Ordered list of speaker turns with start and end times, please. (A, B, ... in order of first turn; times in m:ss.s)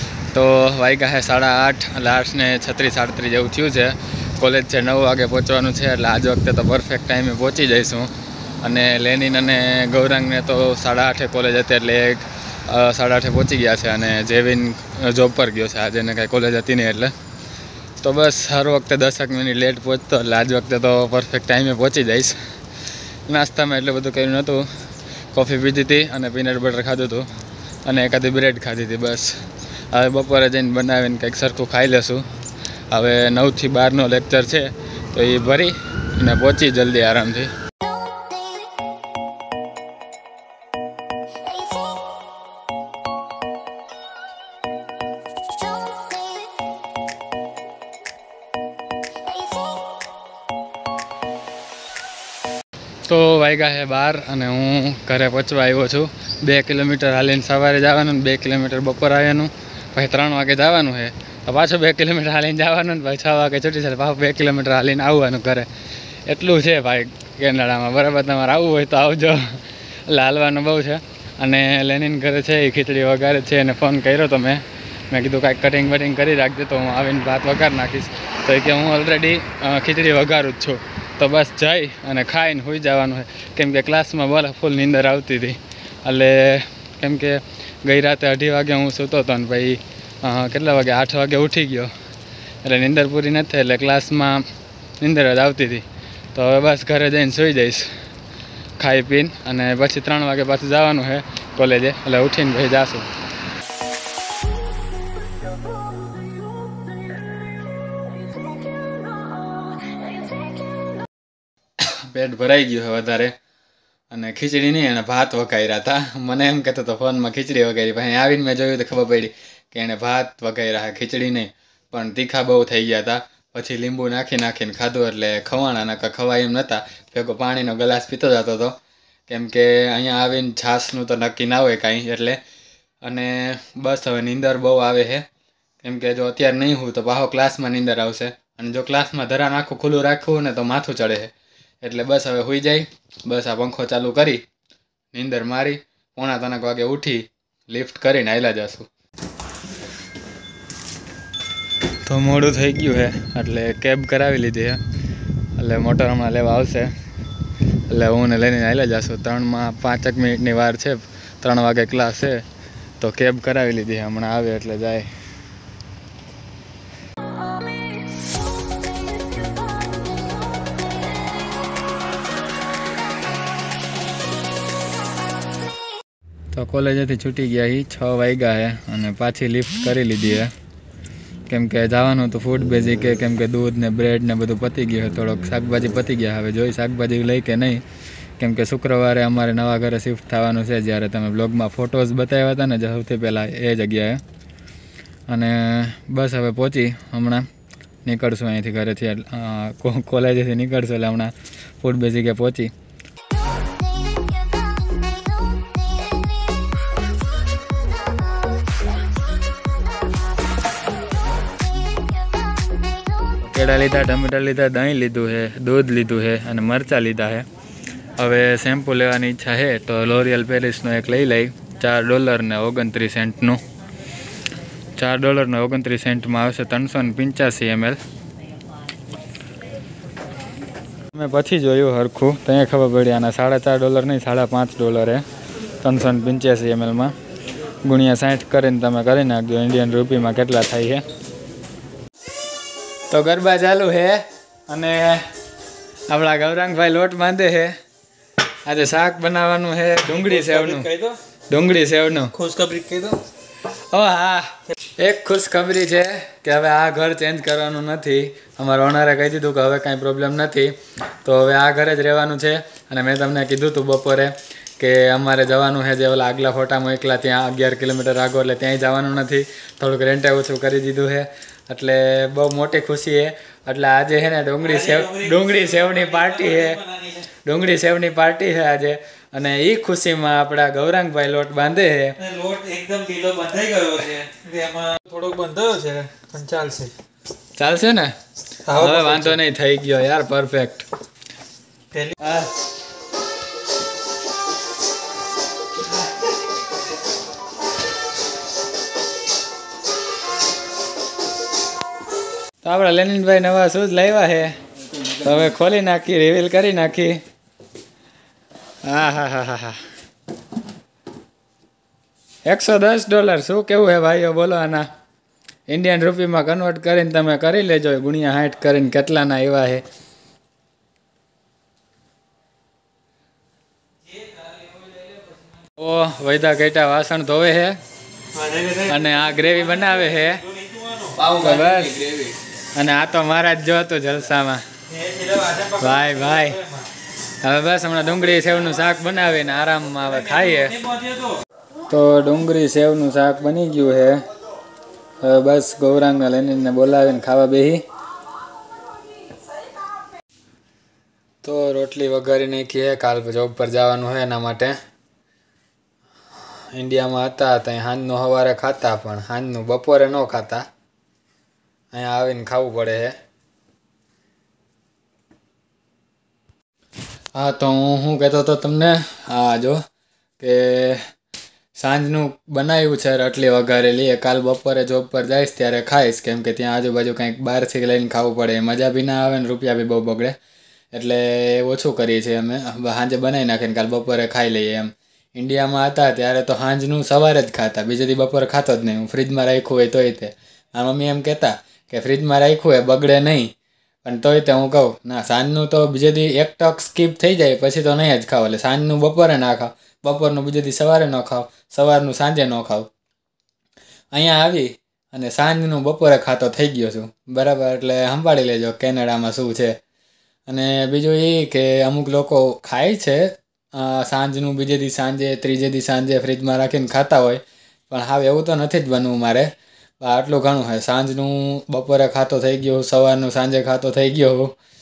0:00.3-0:17.1 A
0:18.0-0:22.4 A
0:23.3-0:24.7 A
0:25.3-0:27.3 A
0:27.9-0:29.4 A
0:29.9-0:32.3 A
0:32.9-0:37.5 A
0:53.1-1:05.7 A
1:06.3-1:31.9 A
1:32.6-1:34.5 A
1:35.0-1:37.9 A
1:38.8-1:43.1 A
1:51.8-1:53.3 A
1:54.1-2:08.8 A
2:09.3-2:12.4 A
2:13.0-2:15.3 A
2:15.8-2:24.4 A
2:25.1-2:28.9 A
2:32.0-2:34.8 A
2:35.6-2:36.9 A
2:37.9-2:42.4 A
2:43.0-2:45.1 A
2:56.5-3:00.5 A
3:01.5-3:07.8 A
3:08.4-3:14.2 A
3:15.3-3:17.5 A
3:18.0-3:22.7 A
3:33.4-3:37.5 A
3:38.2-3:43.6 A
3:45.0-3:48.0 A
3:51.1-3:55.2 A
3:55.8-3:57.2 A
3:57.8-4:01.0 A
4:03.1-4:05.3 A
4:06.1-4:07.8 A
4:08.7-4:10.9 A
4:10.1-4:11.2 B
4:11.5-4:12.4 A
4:12.3-4:13.2 B
4:13.7-4:36.8 A
4:34.6-4:37.3 B
4:37.4-4:42.2 A
4:42.2-4:46.9 B
4:47.6-4:48.2 A
4:48.7-4:49.4 B
4:48.7-4:50.9 A
4:51.9-4:52.5 B
5:02.6-5:04.6 A
5:05.1-5:07.2 A
5:08.8-5:09.8 A
5:12.5-5:14.9 A
5:15.7-5:19.8 A
5:24.2-5:25.0 B
5:25.8-5:27.8 A
5:28.3-5:29.0 B
5:28.9-5:30.4 A
5:29.8-5:31.3 B
5:31.2-5:34.6 A
5:34.9-5:36.9 B
5:35.8-5:36.6 A
5:37.4-5:40.8 A
5:40.7-5:41.3 B
5:41.9-5:44.2 A
5:45.2-5:47.9 A
5:51.4-5:54.8 A
5:56.7-6:00.7 A
6:01.9-6:03.2 A
6:07.3-6:09.8 A
6:10.4-6:11.1 A
6:11.8-6:20.4 A
6:20.9-6:33.5 A
6:34.0-6:42.9 A
6:44.1-6:49.8 A
6:50.5-7:04.6 A